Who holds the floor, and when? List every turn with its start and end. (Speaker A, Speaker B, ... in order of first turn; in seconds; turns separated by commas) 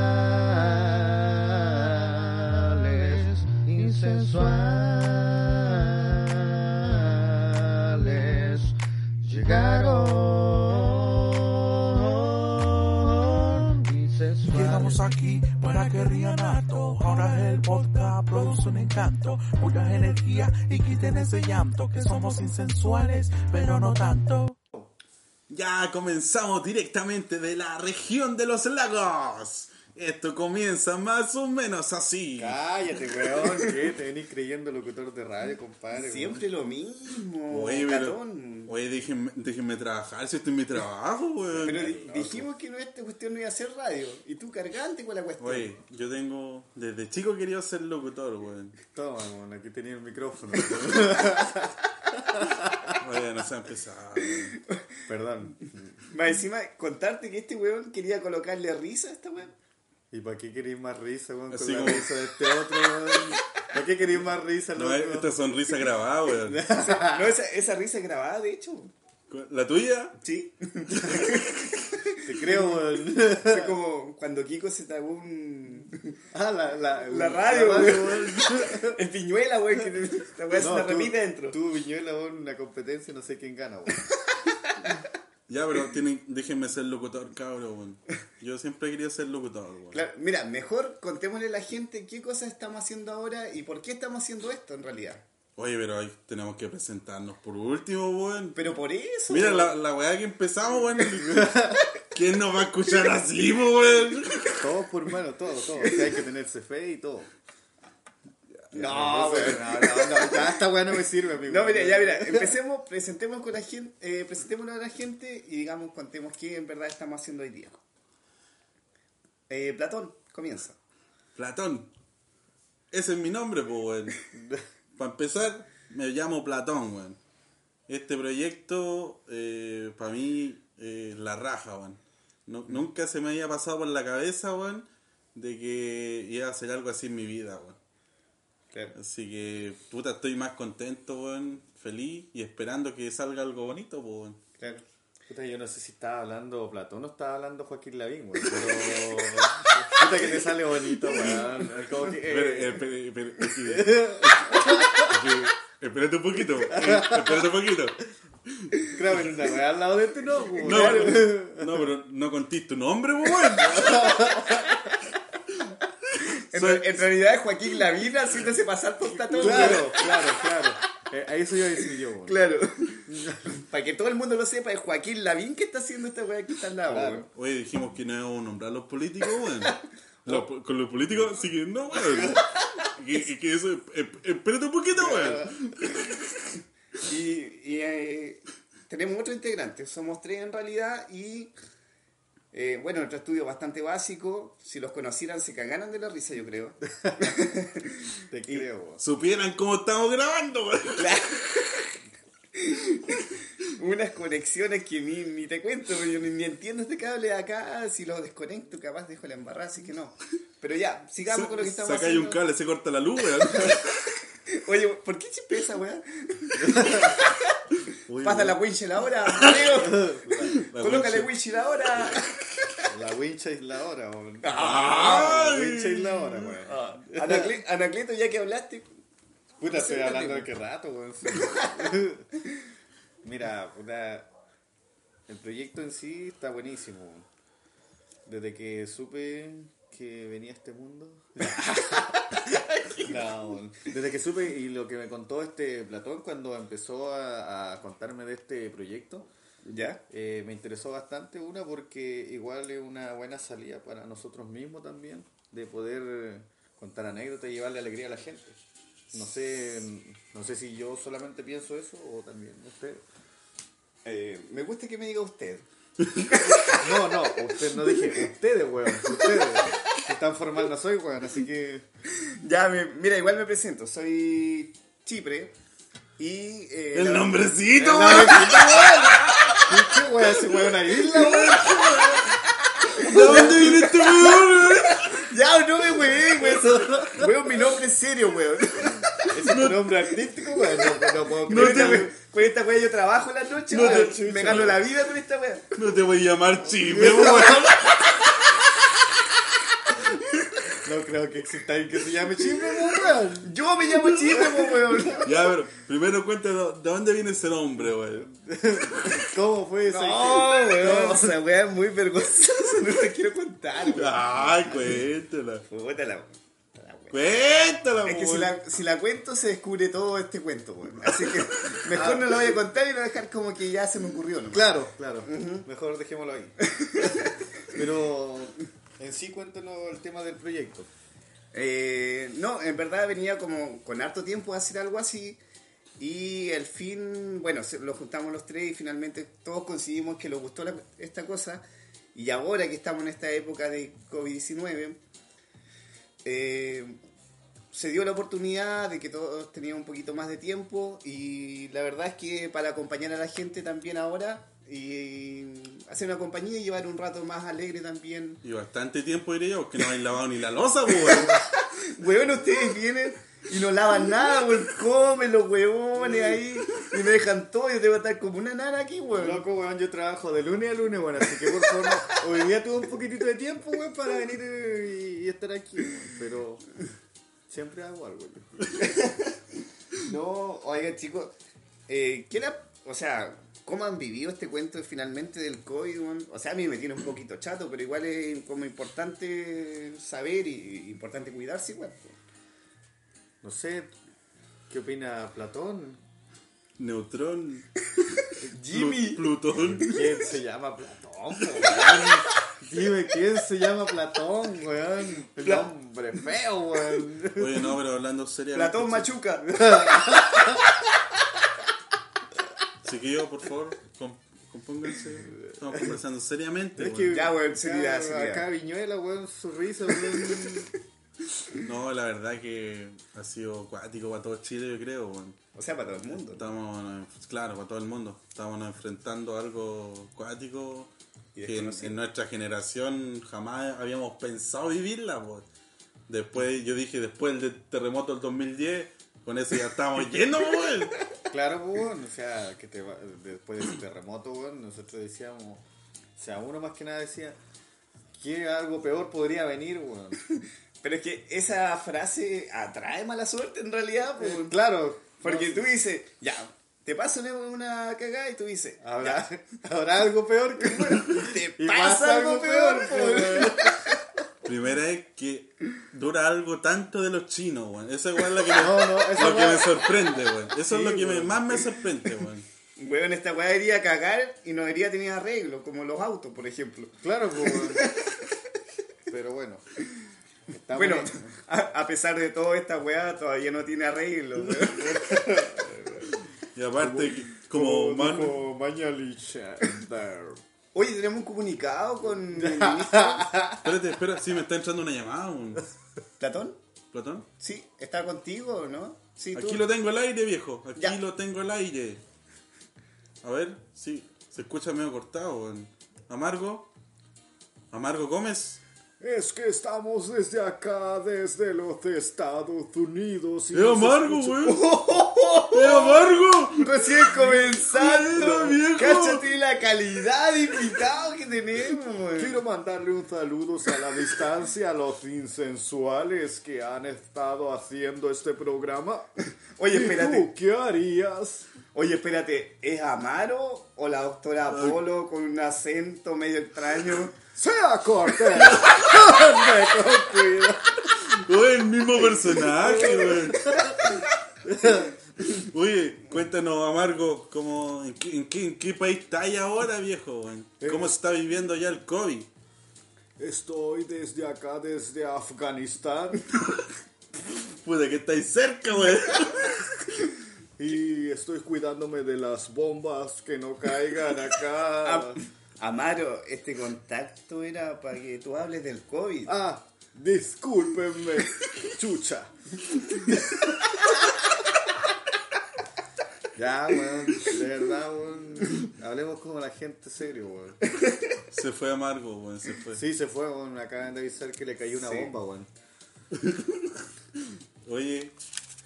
Speaker A: 0.4-4.6, Speaker A: 5.3-8.4, Speaker A: 9.2-10.4, Speaker B: 14.4-24.6, Speaker C: 25.5-32.6, Speaker A: 32.4-36.5, Speaker D: 33.4-33.7, Speaker D: 36.0-38.7, Speaker C: 37.5-42.4, Speaker A: 41.5-42.4, Speaker D: 41.6-45.7, Speaker C: 45.4-48.8, Speaker A: 48.9-51.8, Speaker A: 52.3-52.8, Speaker C: 52.9-54.6, Speaker A: 55.1-56.0, Speaker D: 56.1-59.5, Speaker A: 60.1-65.3, Speaker C: 61.5-62.1, Speaker C: 64.7-66.6, Speaker A: 66.4-67.4, Speaker D: 66.7-68.9, Speaker C: 69.3-70.2, Speaker D: 70.2-76.2, Speaker A: 72.2-73.8, Speaker A: 76.3-79.0, Speaker D: 77.1-81.6, Speaker A: 80.5-84.1, Speaker D: 84.8-85.0, Speaker C: 85.5-90.0, Speaker D: 89.9-95.2, Speaker C: 95.6-98.6, Speaker D: 98.5-99.8, Speaker C: 99.3-104.5, Speaker A: 101.3-101.8, Speaker A: 104.6-107.3, Speaker A: 108.7-112.6, Speaker D: 108.7-110.6, Speaker D: 111.5-117.8, Speaker D: 119.5-120.8, Speaker C: 121.3-121.9, Speaker C: 122.9-124.2, Speaker A: 124.3-124.6, Speaker C: 125.0-127.2, Speaker C: 127.9-137.8, Speaker C: 138.9-144.4, Speaker D: 144.6-144.8, Speaker A: 145.3-152.8, Speaker C: 152.2-159.3, Speaker A: 153.7-155.1, Speaker A: 156.7-157.4, Speaker A: 158.9-161.8, Speaker C: 160.6-164.6, Speaker D: 160.6-161.2, Speaker A: 163.7-164.8, Speaker D: 166.5-170.3, Speaker C: 166.5-167.0, Speaker A: 169.3-172.4, Speaker D: 172.2-177.3, Speaker A: 173.1-173.4, Speaker A: 176.9-177.3, Speaker C: 177.3-186.2, Speaker D: 184.9-185.5, Speaker D: 187.0-191.5, Speaker D: 192.5-198.6, Speaker A: 198.3-199.0, Speaker C: 199.0-201.2, Speaker D: 200.9-201.9, Speaker D: 202.6-212.4, Speaker C: 211.2-213.9, Speaker D: 214.5-217.3, Speaker A: 216.6-217.1, Speaker C: 218.1-218.6, Speaker D: 218.1-220.1, Speaker C: 219.3-219.7, Speaker A: 219.6-220.6, Speaker C: 220.4-221.3, Speaker D: 220.7-222.9, Speaker C: 221.9-222.2, Speaker A: 222.9-227.6, Speaker D: 224.4-225.4, Speaker C: 224.6-226.6, Speaker D: 226.6-228.9, Speaker A: 229.6-232.3, Speaker D: 229.7-230.5, Speaker A: 233.2-234.3, Speaker A: 235.3-237.3, Speaker A: 238.2-242.2, Speaker D: 242.1-243.4, Speaker A: 243.0-249.3, Speaker D: 249.6-250.0, Speaker A: 250.1-258.6, Speaker A: 259.1-263.0, Speaker D: 264.0-265.6, Speaker D: 266.3-266.9, Speaker A: 266.8-271.9, Speaker D: 267.8-268.2, Speaker D: 272.2-275.5, Speaker D: 276.2-277.4, Speaker C: 276.9-279.1, Speaker A: 277.7-279.1, Speaker D: 278.3-279.6, Speaker A: 279.7-282.2, Speaker D: 281.2-281.7, Speaker C: 281.7-282.2, Speaker D: 282.2-289.4, Speaker C: 282.9-285.3, Speaker A: 283.3-283.6, Speaker A: 286.4-287.3, Speaker A: 289.3-292.1, Speaker C: 289.3-290.2, Speaker D: 290.7-295.7, Speaker C: 291.4-292.1, Speaker C: 293.7-294.8, Speaker A: 293.7-294.8, Speaker C: 295.7-298.2, Speaker A: 296.9-297.7, Speaker A: 300.8-303.5, Speaker D: 303.4-305.3, Speaker A: 304.3-305.1, Speaker C: 305.2-308.3, Speaker A: 308.2-311.3, Speaker D: 309.9-315.0, Speaker C: 313.8-315.6, Speaker D: 315.7-317.2, Speaker C: 317.1-318.6, Speaker D: 318.0-324.7, Speaker C: 321.1-321.5, Speaker A: 321.9-322.4, Speaker A: 324.5-330.9, Speaker D: 325.2-325.7, Speaker D: 326.6-327.4, Speaker D: 331.5-335.4, Speaker D: 336.0-341.6, Speaker D: 342.1-345.0, Speaker D: 346.2-347.0, Speaker D: 347.7-358.4, Speaker C: 358.4-361.4, Speaker D: 360.9-369.4, Speaker A: 365.9-366.4, Speaker A: 369.1-376.6, Speaker D: 371.5-371.9, Speaker A: 377.5-378.6, Speaker D: 378.8-379.3, Speaker D: 380.0-381.3, Speaker D: 381.9-392.1, Speaker A: 393.4-393.9, Speaker A: 394.7-396.0, Speaker C: 396.8-397.7, Speaker D: 398.4-399.3, Speaker C: 398.7-400.1, Speaker A: 399.8-407.7, Speaker D: 405.4-405.7, Speaker C: 407.3-409.1, Speaker D: 408.5-409.5, Speaker A: 409.4-410.6, Speaker C: 412.8-417.2, Speaker A: 416.8-420.7, Speaker D: 417.1-418.5, Speaker D: 420.1-420.6, Speaker C: 421.6-425.4, Speaker D: 425.5-426.5, Speaker C: 426.0-430.9, Speaker D: 431.3-432.0, Speaker C: 431.4-435.4, Speaker C: 436.1-441.0, Speaker A: 441.3-445.6, Speaker A: 446.2-447.4, Speaker A: 448.1-450.2, Speaker D: 450.3-454.6, Speaker A: 454.2-455.7, Speaker D: 455.2-459.2, Speaker A: 458.8-464.0, Speaker D: 460.6-463.9, Speaker C: 464.4-472.5, Speaker A: 468.5-469.7, Speaker A: 470.7-471.7, Speaker D: 472.8-478.3, Speaker A: 477.0-477.8, Speaker A: 479.1-479.6, Speaker A: 480.5-481.4, Speaker D: 480.7-486.1, Speaker A: 484.4-485.9, Speaker C: 486.5-488.4, Speaker A: 486.8-490.4, Speaker D: 490.7-493.5, Speaker A: 492.4-493.7, Speaker C: 493.6-495.7, Speaker D: 496.2-496.6, Speaker C: 496.9-497.3, Speaker D: 497.4-499.6, Speaker C: 499.3-502.0, Speaker C: 503.2-506.7, Speaker C: 507.7-508.6, Speaker A: 509.0-514.5, Speaker C: 513.5-514.7, Speaker D: 514.4-522.4, Speaker C: 515.5-519.2, Speaker A: 522.2-529.1, Speaker D: 529.6-530.3, Speaker A: 529.7-531.5, Speaker D: 531.7-537.1, Speaker C: 534.5-534.8, Speaker A: 537.3-540.9, Speaker C: 541.1-544.0, Speaker A: 542.5-543.9, Speaker A: 544.4-545.0, Speaker C: 545.3-552.3, Speaker A: 550.6-550.9, Speaker A: 553.2-556.2, Speaker C: 557.3-559.8, Speaker A: 560.6-565.2, Speaker D: 564.8-569.3, Speaker A: 569.3-573.4, Speaker A: 576.3-580.6, Speaker D: 580.8-581.1, Speaker C: 581.3-582.8, Speaker A: 582.7-585.5, Speaker D: 584.8-585.1, Speaker C: 586.2-586.7, Speaker C: 587.6-588.1